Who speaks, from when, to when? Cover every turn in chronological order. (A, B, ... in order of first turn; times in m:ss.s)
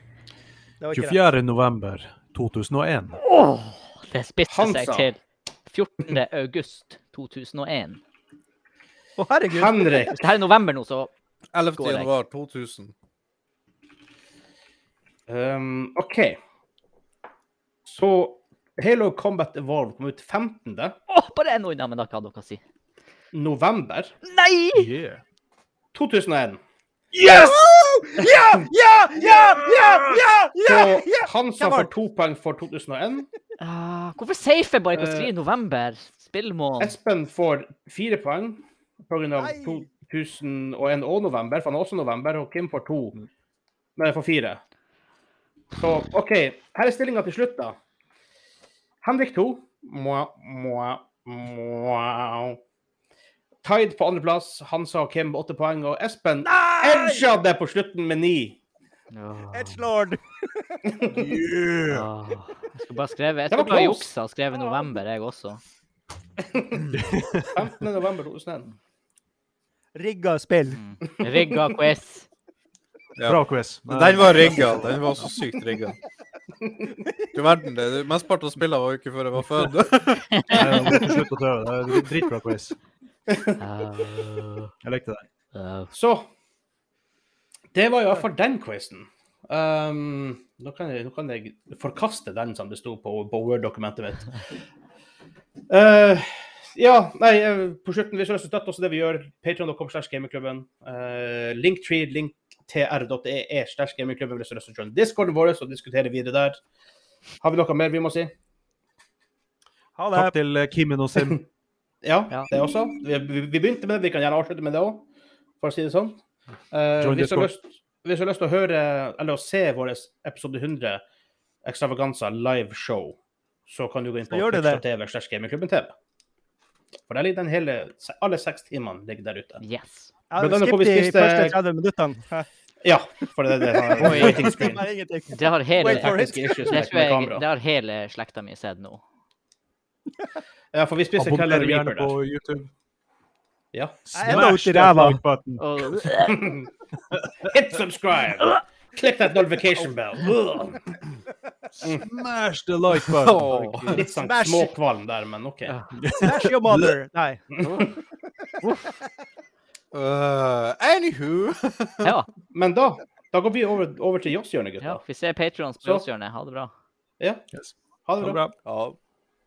0:00.8-0:01.2 A
0:00.9-0:03.2 B
0:03.2-0:08.0 C
0:04.5-0:05.1 D
0:09.2-0:10.1 A
0:09.5-0:10.2 D
0:10.1-0:11.1 C
0:11.5-0:12.9 E
0:11.8-0:12.1 C
0:15.3-0:16.4 D
0:17.9-0:21.0 D
0:21.1-0:22.6 C
0:23.3-0:24.2 D
0:24.2-0:24.9 C
0:24.8-0:25.2 B
0:25.9-0:26.6 D
0:27.1-0:31.9 A
0:30.6-0:33.3 D
0:33.6-0:36.9 C
0:35.0-0:35.3 D
0:36.8-0:43.2 D
0:39.4-0:39.8 A
0:44.0-0:44.6 D
0:45.8-0:47.8 D
0:49.0-0:52.6 D
0:53.6-0:58.6 D
0:56.5-0:57.2 A
0:59.1-0:59.8 C
0:59.5-1:00.8 A
1:01.0-1:01.3 D
1:01.1-1:02.1 B
1:01.9-1:05.6 C
1:03.5-1:04.1 D
1:06.4-1:08.7 D
1:06.9-1:07.6 B
1:10.0-1:10.8 A
1:10.7-1:12.3 C
1:13.2-1:16.0 E
1:13.2-1:14.9 B
1:17.3-1:20.7 E
1:20.3-1:20.8 C
1:20.5-1:22.8 B
1:23.3-1:23.6 D
1:23.6-1:24.7 C
1:24.8-1:25.2 B
1:25.5-1:25.9 C
1:25.9-1:26.3 D
1:27.7-1:34.4 D
1:35.7-1:46.6 D
1:47.4-1:48.3 D
1:50.0-1:50.3 A
1:50.1-1:51.4 B
1:52.0-1:55.0 D
1:55.6-2:01.0 D
1:57.0-1:57.5 B
2:01.6-2:03.2 D
2:03.7-2:05.9 D
2:04.3-2:04.8 A
2:07.1-2:09.6 D
2:09.6-2:10.1 C
2:10.3-2:12.5 A
2:10.4-2:11.6 D
2:12.8-2:14.9 D
2:13.8-2:16.9 A
2:14.0-2:14.5 C
2:15.3-2:19.0 C
2:15.8-2:17.4 D
2:20.7-2:22.1 D
2:21.2-2:22.7 B
2:23.7-2:24.0 D
2:24.1-2:26.1 B
2:24.1-2:25.2 A
2:25.6-2:26.6 C
2:26.2-2:26.7 D
2:27.1-2:27.5 B
2:27.4-2:31.0 D
2:31.9-2:33.7 B
2:33.1-2:34.0 E
2:33.6-2:34.8 A
2:33.9-2:35.8 D
2:36.0-2:37.0 B
2:36.2-2:37.4 A
2:37.6-2:37.9 D
2:37.6-2:37.9 C
2:38.6-2:38.9 C
2:39.9-2:42.1 E
2:42.0-2:42.3 C
2:42.5-2:45.0 D
2:44.8-2:46.7 C
2:48.1-2:48.5 D
2:48.2-2:48.5 A
2:48.6-2:49.0 E